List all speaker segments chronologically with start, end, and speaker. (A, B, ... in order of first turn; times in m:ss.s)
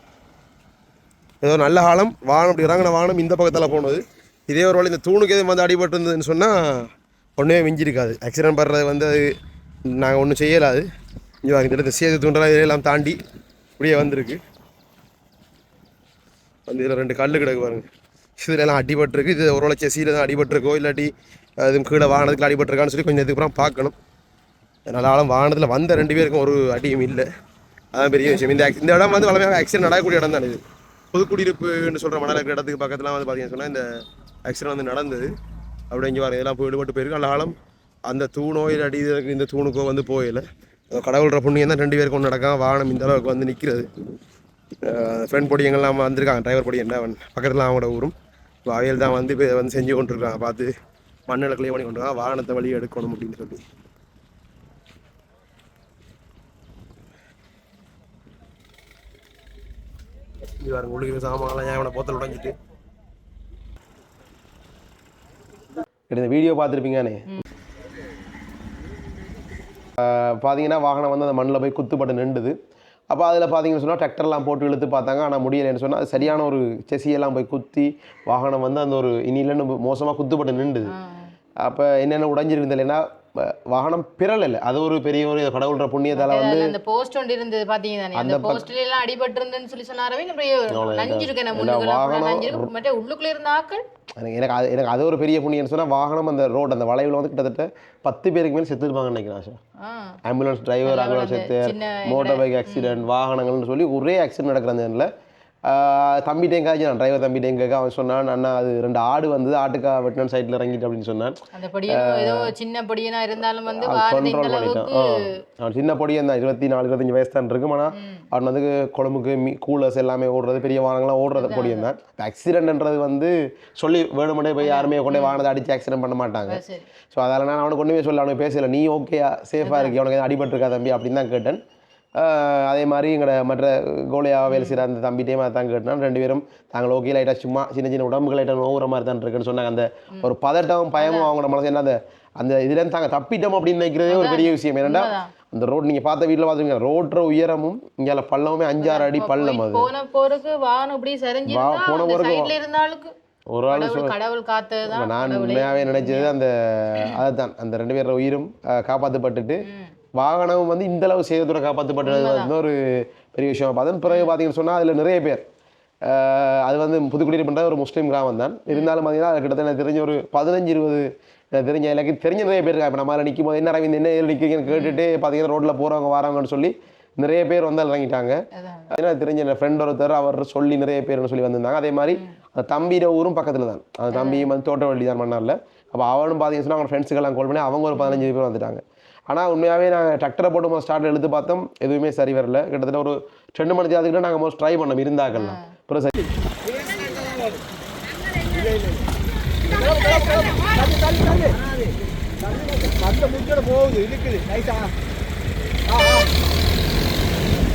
0:01.4-0:09.4 A
0:09.9-0:10.8 A
0:11.4-0:13.2 A
0:13.8-0:14.4 A
0:16.7-0:17.8 A
0:18.4-0:23.9 A
0:24.9-0:27.3 A
0:27.9-0:30.6 A
0:31.1-0:33.9 A
0:34.4-0:35.3 A
0:35.9-0:37.5 A
0:38.0-0:43.9 A
0:44.8-0:48.1 A
0:48.6-0:50.7 A
0:51.3-0:53.6 A
1:00.6-1:02.6 A
1:06.1-1:07.4 A
1:10.0-1:12.6 A
1:13.1-1:20.9 A
1:20.9-1:21.3 B
1:21.6-1:26.7 A
1:26.1-1:33.8 B
1:28.1-1:28.6 A
1:30.7-1:32.7 A
1:34.2-1:39.6 A
1:39.8-1:40.2 B
1:40.2-1:45.1 A
1:40.8-1:43.0 B
1:45.6-1:52.5 A
1:51.5-1:55.3 B
1:53.7-2:06.6 A
1:57.9-1:58.2 B
2:01.4-2:01.9 B
2:04.6-2:05.4 B
2:06.5-2:06.8 B
2:07.1-2:11.6 A
2:09.6-2:10.0 B
2:12.2-2:29.9 A
2:14.5-2:14.8 B
2:21.0-2:21.3 B
2:24.1-2:25.3 B
2:28.8-2:33.1 B
2:31.5-2:32.5 A
2:33.5-2:34.1 A
2:33.7-2:36.3 B
2:34.8-2:39.6 A
2:39.6-2:39.9 B
2:40.2-2:45.4 A
2:42.0-2:42.5 B
2:46.0-3:16.1 A
2:48.7-2:49.0 B
2:54.7-2:55.0 B
2:58.5-2:58.9 B
3:04.1-3:04.5 B
3:07.9-3:08.3 B
3:15.3-3:15.7 B
3:16.7-3:17.6 C
3:18.4-3:19.0 C
3:19.6-3:24.9 C
3:25.9-3:26.3 C